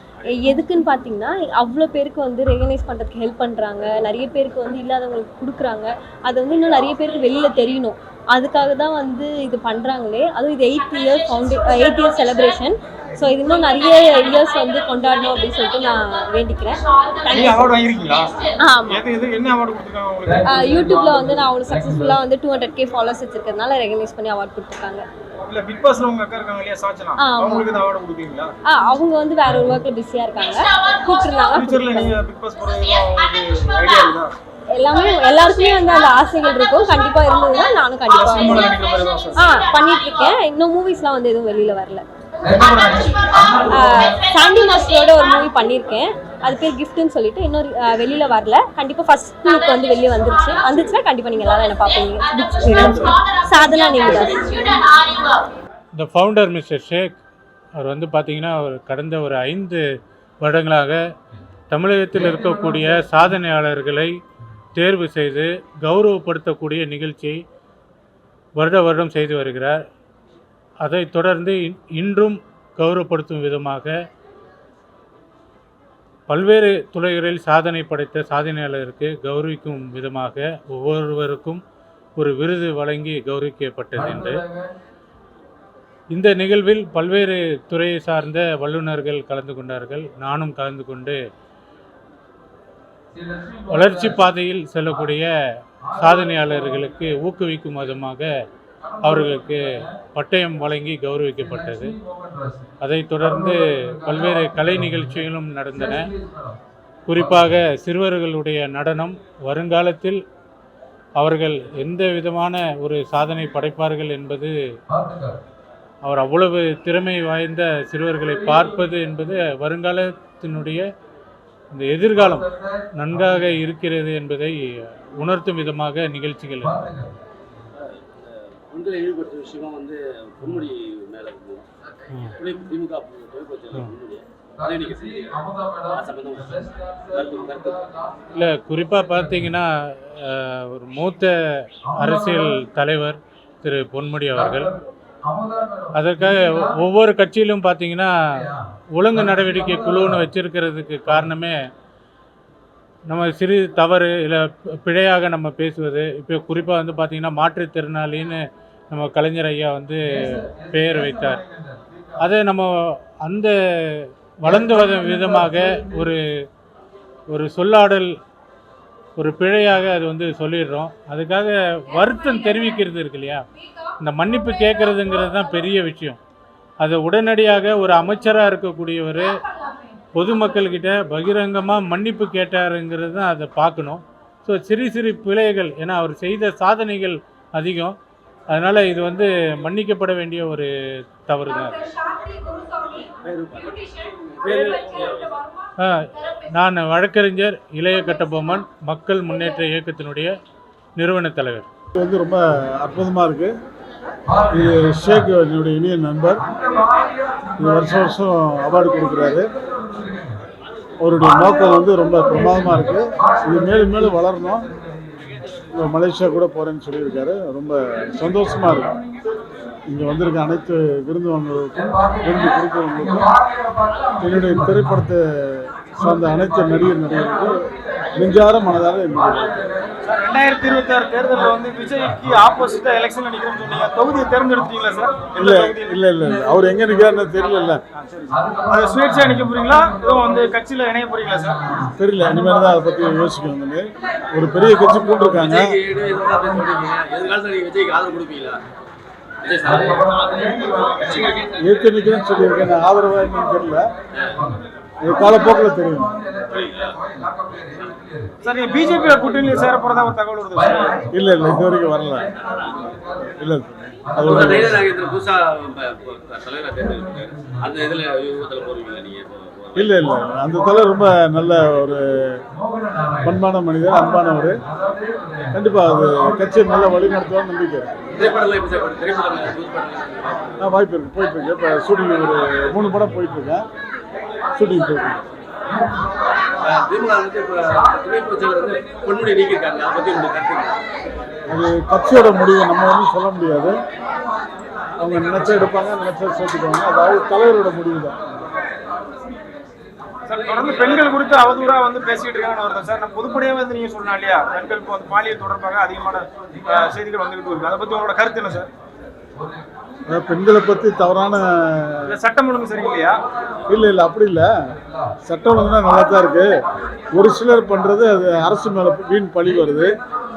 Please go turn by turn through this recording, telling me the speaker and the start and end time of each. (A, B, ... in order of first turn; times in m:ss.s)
0:00.3-0:17.8 A
0:17.3-0:18.3 B
0:18.6-0:19.0 A
0:18.9-0:20.8 B
0:20.4-0:25.0 A
0:25.5-0:28.5 B
0:27.2-0:27.7 A
0:28.7-0:32.2 A
0:31.5-0:34.4 B
0:34.7-0:38.8 A
0:38.1-0:39.5 B
0:39.4-0:42.0 A
0:43.6-0:54.7 A
0:55.9-0:57.1 C
0:57.8-0:59.8 C
1:00.4-1:01.0 C
1:01.7-1:04.1 C
1:04.8-1:07.4 C
1:08.6-1:09.8 C
1:10.8-1:13.9 C
1:16.3-1:21.6 C
1:22.2-1:24.5 C
1:26.1-1:31.2 C
1:33.7-1:35.3 C
1:36.0-1:38.3 C
1:39.0-1:42.0 C
1:42.8-1:46.1 C
1:47.1-1:50.2 C
1:51.2-1:54.5 C
1:56.0-2:00.8 C
2:01.7-2:04.6 C
2:05.2-2:06.9 C
2:07.8-2:11.6 D
2:12.4-2:15.3 D
2:15.9-2:17.9 D
2:18.3-2:24.7 C
2:25.9-2:28.1 C
2:28.9-2:31.6 C
2:33.1-2:41.4 C
2:42.2-2:46.2 C
2:47.3-2:48.1 C
2:49.2-2:53.4 C
2:54.0-2:56.2 C
2:56.8-2:59.3 C
3:00.1-3:08.0 C
3:08.5-3:10.7 C
3:11.3-3:11.9 C
3:13.0-3:15.4 D
3:14.5-3:14.8 B
3:15.8-3:20.4 C
3:21.0-3:21.7 C
3:22.0-3:23.5 E
3:24.5-3:26.4 E
3:27.6-3:29.5 E
3:31.0-3:34.7 E
3:35.7-3:39.0 E
3:39.9-3:43.3 E
3:44.2-3:47.5 E
3:48.2-3:49.6 E
3:50.0-3:56.0 B
3:55.4-3:57.8 E
3:57.9-4:01.6 B
4:01.9-4:05.7 E
4:05.3-4:08.6 D
4:09.4-4:11.4 D
4:11.5-4:13.8 E
4:15.0-4:16.3 E
4:16.5-4:17.2 D
4:17.7-4:17.9 D
4:18.4-4:21.0 B
4:21.1-4:22.3 E
4:23.2-4:24.9 E
4:24.2-4:30.0 D
4:29.8-4:32.4 E
4:33.2-4:34.6 E
4:35.5-4:38.0 E
4:38.1-4:40.6 D
4:40.6-4:43.6 E
4:44.6-4:45.2 E
4:46.6-4:50.8 D
4:51.5-4:53.8 E
4:55.0-4:58.2 E
5:00.3-5:08.7 B
5:10.1-5:12.2 E
5:12.1-5:13.2 B
5:13.7-5:14.5 E
5:15.2-5:16.5 E
5:17.1-5:20.0 E